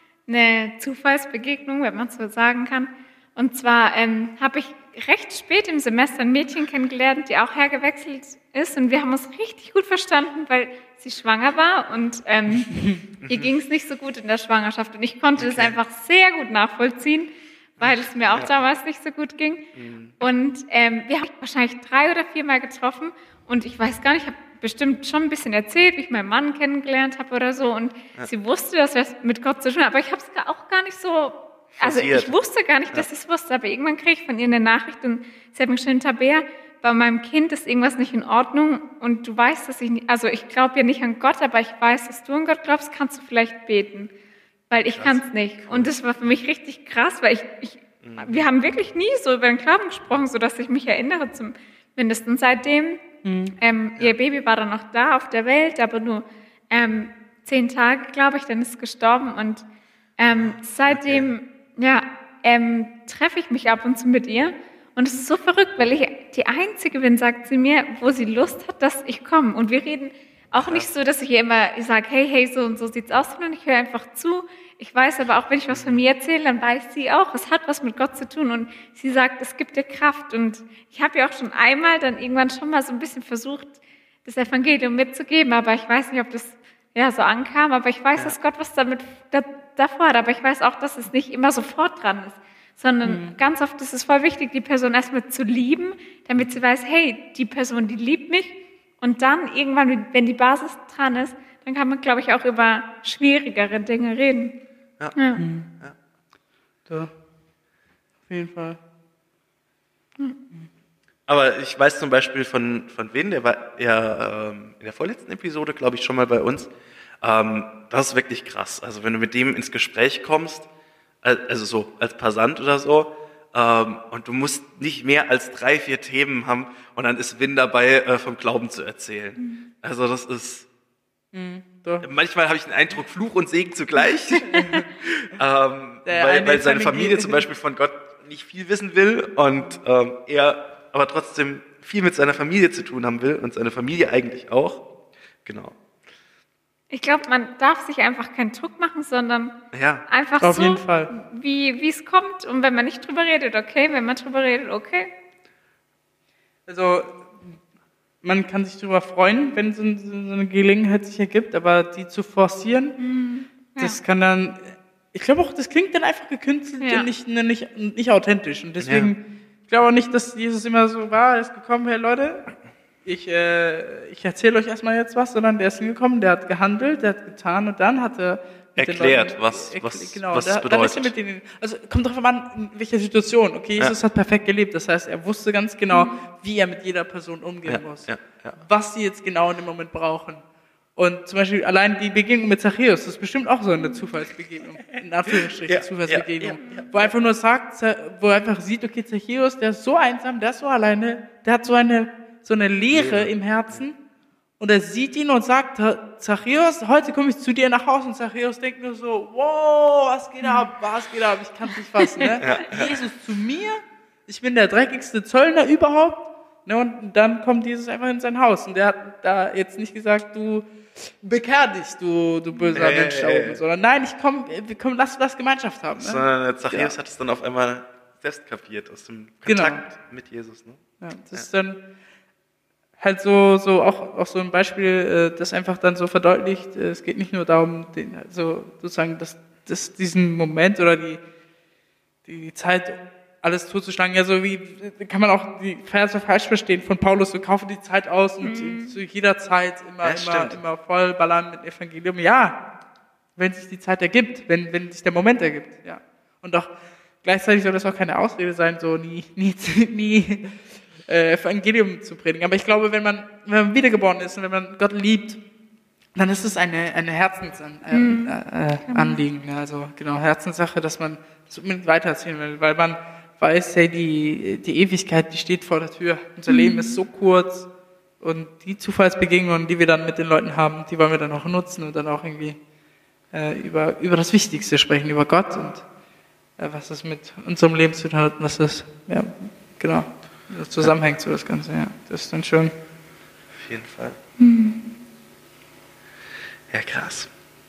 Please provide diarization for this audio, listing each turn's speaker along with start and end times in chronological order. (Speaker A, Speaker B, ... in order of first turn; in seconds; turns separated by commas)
Speaker A: 0.3-19.7, Speaker B: 13.2-13.5, Speaker B: 15.4-15.8, Speaker B: 17.8-18.5, Speaker B: 19.8-20.1, Speaker A: 20.2-44.1, Speaker B: 31.8-32.4, Speaker A: 44.7-53.0, Speaker B: 44.9-45.9, Speaker B: 48.0-48.5, Speaker C: 53.2-53.6, Speaker A: 53.6-59.6, Speaker A: 60.2-104.5, Speaker B: 60.3-61.3, Speaker B: 75.7-76.0, Speaker C: 93.0-93.4, Speaker A: 105.2-105.4, Speaker C: 105.4-105.7, Speaker C: 106.9-107.1, Speaker C: 108.3-108.8, Speaker B: 111.3-120.7, Speaker B: 121.2-130.7, Speaker C: 131.3-132.1, Speaker B: 132.0-144.8, Speaker C: 134.6-134.8, Speaker C: 136.1-137.4, Speaker B: 145.4-145.8, Speaker A: 146.9-149.5, Speaker B: 149.7-150.1, Speaker A: 150.1-155.1, Speaker C: 150.4-151.1, Speaker C: 156.7-157.6, Speaker C: 158.2-163.0, Speaker A: 163.0-164.0, Speaker C: 163.8-172.5, Speaker A: 166.8-167.1, Speaker B: 168.8-169.1, Speaker C: 173.1-190.4, Speaker B: 178.8-181.1, Speaker B: 187.7-188.6, Speaker C: 191.0-204.0, Speaker B: 195.7-197.1, Speaker B: 202.9-203.3, Speaker C: 204.6-226.9, Speaker B: 212.4-213.0, Speaker B: 222.7-223.6, Speaker B: 226.0-230.8, Speaker C: 229.5-229.8, Speaker C: 231.0-231.8, Speaker C: 233.0-241.2, Speaker C: 242.2-252.6, Speaker A: 248.4-248.9, Speaker B: 250.0-250.6, Speaker C: 253.4-265.4, Speaker C: 266.1-277.7, Speaker A: 267.9-268.4, Speaker A: 268.9-269.2, Speaker A: 276.5-277.0, Speaker C: 278.2-282.6, Speaker C: 283.3-285.9, Speaker C: 286.6-292.7, Speaker B: 293.6-294.2, Speaker A: 294.4-294.8, Speaker B: 296.7-297.3